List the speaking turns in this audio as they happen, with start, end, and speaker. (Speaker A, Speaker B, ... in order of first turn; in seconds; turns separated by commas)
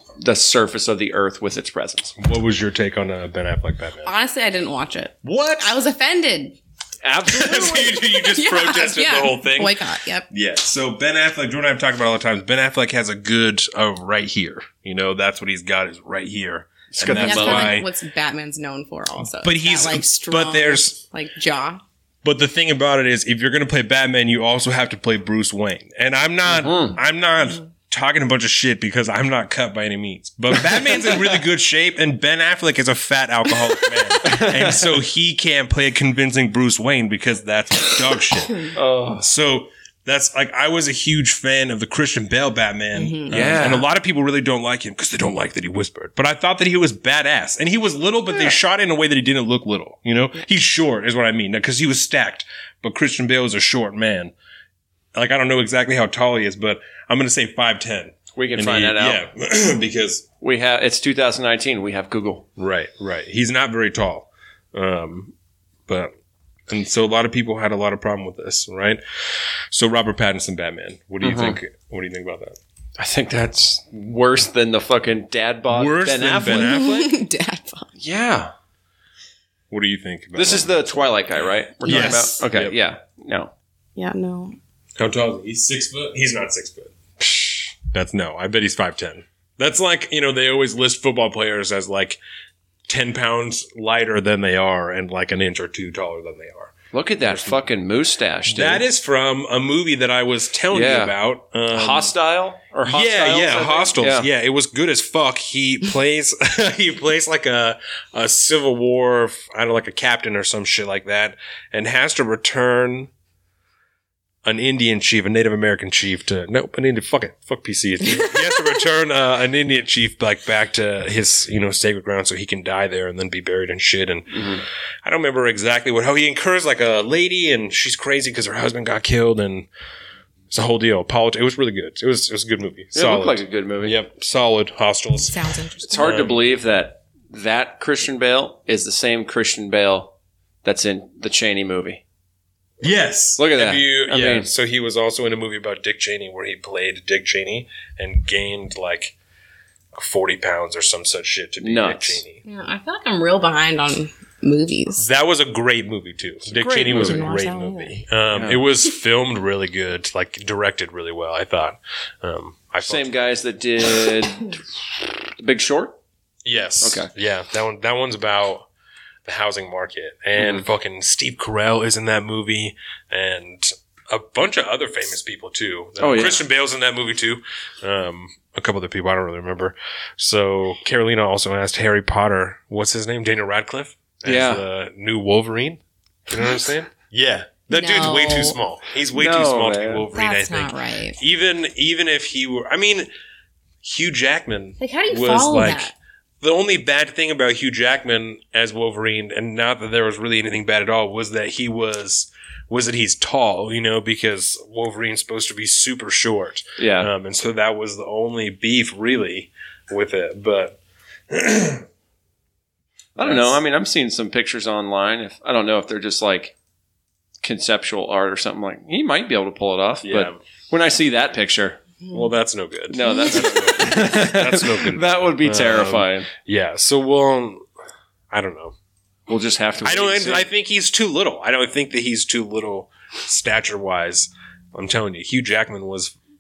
Speaker A: 0.2-2.1, Speaker B: 2.2-4.1, Speaker C: 4.0-6.6, Speaker B: 5.2-5.7, Speaker A: 7.0-8.1, Speaker B: 7.3-17.9, Speaker C: 8.2-10.3, Speaker A: 16.9-17.8, Speaker C: 17.1-21.8, Speaker B: 19.4-21.0, Speaker B: 22.2-54.3, Speaker A: 26.5-27.0, Speaker A: 30.9-31.2, Speaker A: 34.2-35.0, Speaker A: 38.7-39.3, Speaker C: 43.0-43.6, Speaker A: 43.3-43.9, Speaker B: 55.1-60.2, Speaker A: 58.4-59.3, Speaker A: 60.4-62.5, Speaker B: 62.6-65.3, Speaker B: 66.7-69.0, Speaker B: 69.7-72.6, Speaker A: 71.2-71.6, Speaker A: 73.0-76.7, Speaker B: 75.7-77.2, Speaker C: 76.5-77.9, Speaker A: 78.0-78.5, Speaker B: 79.7-81.0, Speaker A: 80.3-83.5, Speaker B: 81.8-82.8, Speaker C: 84.0-84.6, Speaker B: 85.0-92.2, Speaker B: 92.9-97.6, Speaker A: 96.9-98.8, Speaker B: 98.5-102.1, Speaker A: 100.7-101.2, Speaker A: 101.7-104.3, Speaker B: 102.8-113.1, Speaker B: 114.5-129.7, Speaker A: 124.3-124.6, Speaker B: 130.5-136.4, Speaker A: 132.9-134.0, Speaker C: 135.3-136.2, Speaker A: 135.9-142.0, Speaker B: 142.8-149.2, Speaker A: 143.4-144.5, Speaker B: 149.9-152.4, Speaker A: 151.6-152.2, Speaker C: 152.4-155.1, Speaker B: 155.0-163.1, Speaker A: 156.5-157.3, Speaker C: 156.8-158.0, Speaker A: 158.3-158.6, Speaker A: 162.8-166.0, Speaker B: 166.4-168.7, Speaker A: 166.8-167.1, Speaker B: 169.3-193.1, Speaker A: 170.4-170.7, Speaker A: 176.0-176.4, Speaker A: 184.3-184.7, Speaker C: 187.7-188.6, Speaker A: 189.1-190.1, Speaker C: 190.1-191.2, Speaker B: 193.8-210.8, Speaker C: 194.8-195.9, Speaker A: 206.8-207.1, Speaker B: 211.3-211.8, Speaker A: 213.2-216.5, Speaker B: 213.2-213.6, Speaker A: 217.4-221.8, Speaker B: 220.0-220.4, Speaker B: 222.1-227.6, Speaker A: 222.9-226.3, Speaker B: 228.3-228.8, Speaker A: 229.3-230.5, Speaker B: 229.8-236.2